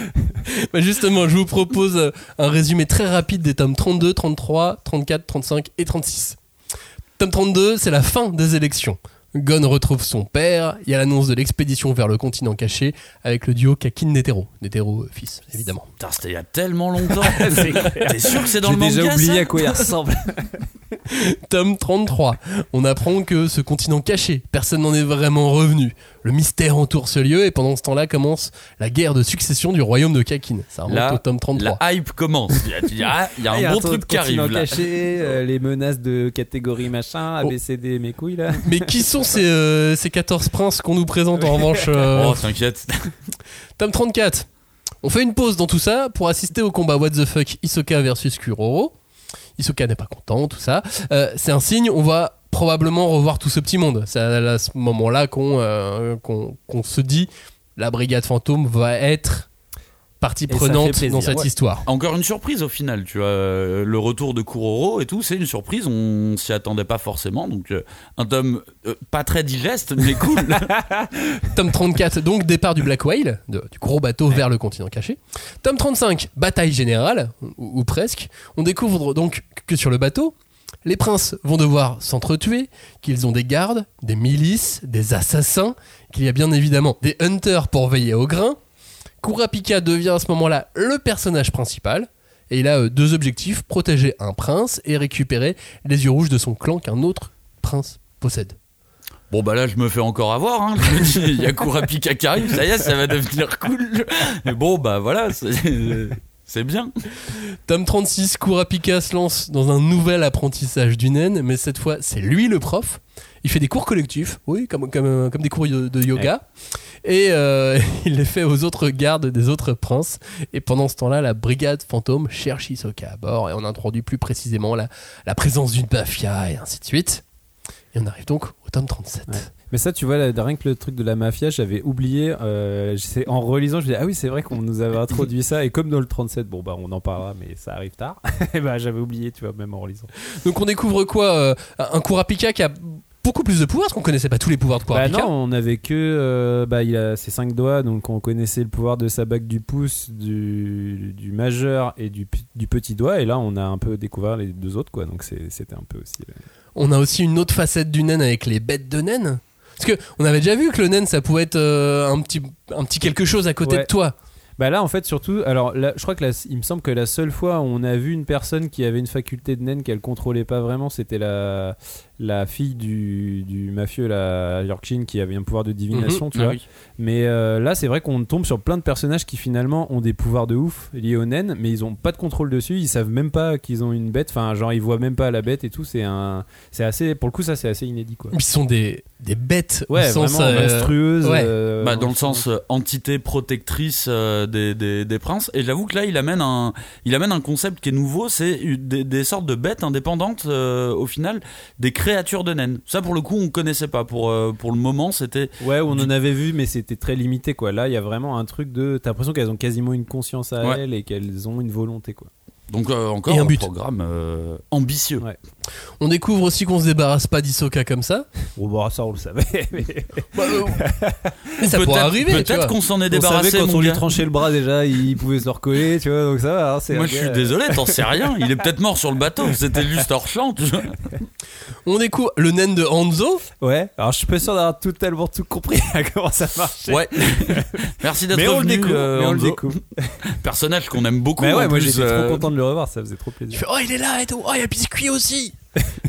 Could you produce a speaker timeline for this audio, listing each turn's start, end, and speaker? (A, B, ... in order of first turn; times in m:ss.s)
0:00.4-0:06.4 A
0:07.2-0:15.9 A
0:16.0-0:19.8 B
0:17.3-0:20.7 C
0:17.5-0:18.1 A
0:21.1-0:31.8 A
0:30.9-0:34.8 B
0:33.5-0:39.1 C
0:38.6-0:42.4 A
0:41.4-0:42.1 C
0:42.1-0:43.1 B
0:43.8-0:44.5 A
0:45.0-0:48.9 A
0:49.6-0:59.5 A
1:00.2-1:01.8 A
1:00.5-1:01.4 C
1:01.3-1:10.7 B
1:10.7-1:11.5 C
1:11.5-1:20.3 A
1:20.8-1:28.6 A
1:29.2-1:38.6 A
1:39.3-1:46.9 B
1:47.2-1:56.4 A
1:57.0-2:07.2 A
2:07.9-2:09.5 A
2:09.3-2:20.1 C
2:20.3-2:25.3 A
2:24.9-2:36.4 C
2:36.8-2:44.1 A
2:43.6-2:43.9 C
2:44.6-3:08.3 C
2:55.9-2:56.2 A
2:56.3-2:56.6 B
3:08.3-3:11.5 A
3:09.9-3:12.4 C
3:11.8-3:26.1 B
3:25.6-3:32.3 C
3:32.7-3:35.2 B
3:33.3-3:33.7 A
3:36.0-3:38.3 A
3:38.6-3:41.4 C
3:40.3-3:40.8 A
3:41.6-3:42.7 A
3:41.6-3:44.0 B
3:43.1-3:48.6 C
3:46.9-3:51.0 B
3:51.8-3:53.4 A
3:53.6-4:00.2 C
3:56.9-3:59.7 B
4:00.3-4:02.5 B
4:01.4-4:03.6 C
4:03.5-4:05.5 A